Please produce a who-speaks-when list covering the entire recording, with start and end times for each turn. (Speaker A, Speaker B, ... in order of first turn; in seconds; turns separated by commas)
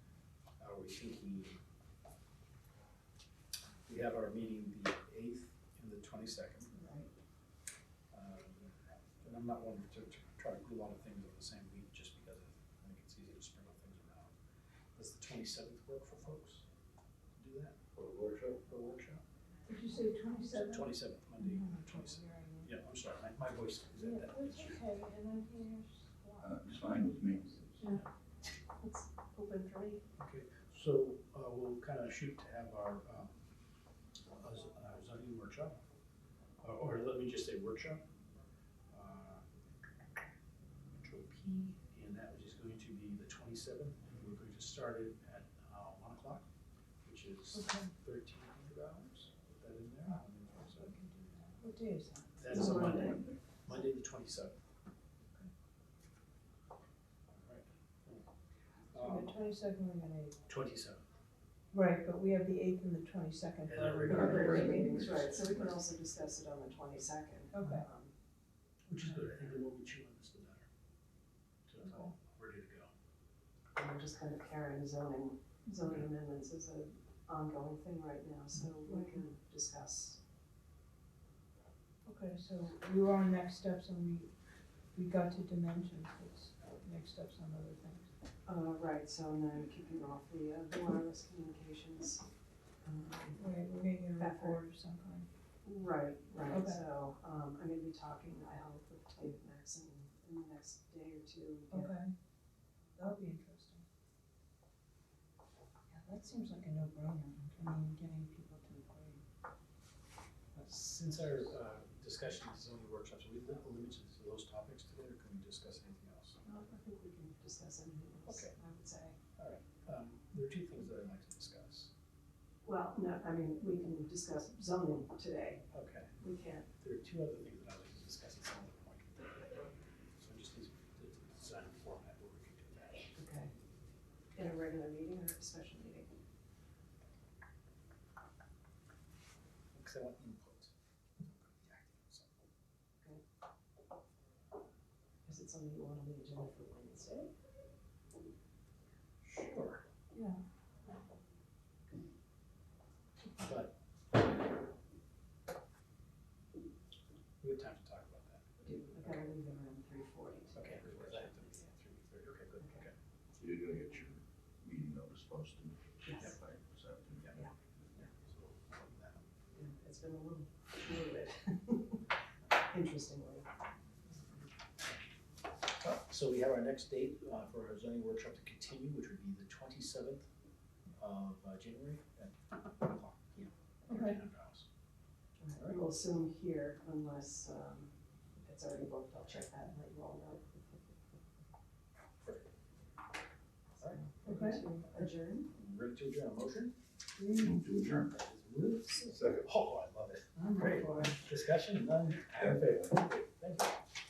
Speaker A: 0.6-1.6, Speaker A: 3.9-6.7, Speaker B: 6.7-7.1, Speaker A: 8.1-14.3, Speaker A: 14.9-16.6, Speaker A: 17.4-19.2, Speaker C: 19.7-21.6, Speaker A: 20.5-24.8, Speaker C: 24.0-28.0, Speaker D: 26.4-27.6, Speaker B: 28.8-30.0, Speaker A: 30.2-33.4, Speaker A: 34.3-35.8, Speaker A: 36.6-38.0, Speaker A: 38.9-39.4, Speaker A: 40.9-46.5, Speaker A: 47.0-51.1, Speaker C: 47.5-47.9, Speaker C: 50.7-52.5, Speaker A: 52.4-54.6, Speaker B: 52.5-53.3, Speaker A: 57.4-58.2, Speaker A: 58.9-59.4, Speaker C: 59.0-60.4, Speaker A: 60.5-61.0, Speaker C: 61.7-65.3, Speaker A: 63.7-65.7, Speaker B: 64.1-68.1, Speaker D: 64.1-65.0, Speaker C: 67.5-67.8, Speaker A: 68.9-70.7, Speaker A: 71.7-72.9, Speaker C: 71.8-72.1, Speaker B: 73.8-80.2, Speaker C: 78.6-79.2, Speaker C: 82.1-84.3, Speaker C: 84.9-88.1, Speaker B: 88.5-92.2, Speaker B: 92.8-94.6, Speaker C: 93.4-95.3, Speaker B: 95.6-102.0, Speaker C: 96.5-96.8, Speaker C: 101.7-102.1, Speaker C: 103.0-103.8, Speaker C: 105.9-109.2, Speaker A: 110.5-116.4, Speaker B: 116.4-119.2, Speaker A: 118.3-118.5, Speaker A: 119.4-121.9, Speaker B: 122.6-125.7, Speaker A: 125.7-126.1, Speaker B: 126.2-126.7, Speaker A: 126.8-133.1, Speaker B: 133.1-133.5, Speaker B: 134.4-136.2, Speaker A: 139.7-142.3, Speaker B: 145.2-147.3, Speaker A: 149.2-149.8, Speaker A: 153.4-153.7, Speaker A: 157.4-158.4, Speaker B: 158.6-161.7, Speaker A: 160.6-162.9, Speaker B: 162.6-162.9, Speaker D: 163.4-167.5, Speaker B: 166.1-166.4, Speaker A: 167.2-169.3, Speaker B: 169.5-172.0, Speaker B: 172.7-173.5, Speaker A: 175.8-180.3, Speaker A: 181.0-184.7, Speaker C: 183.9-184.2, Speaker B: 185.4-190.4, Speaker A: 185.6-185.8, Speaker A: 192.2-192.5, Speaker B: 193.8-195.5, Speaker C: 194.2-194.6, Speaker A: 195.5-196.7, Speaker C: 197.2-197.6, Speaker D: 197.3-198.1, Speaker A: 198.0-203.8, Speaker B: 198.9-199.2, Speaker D: 199.1-199.4, Speaker C: 200.4-201.2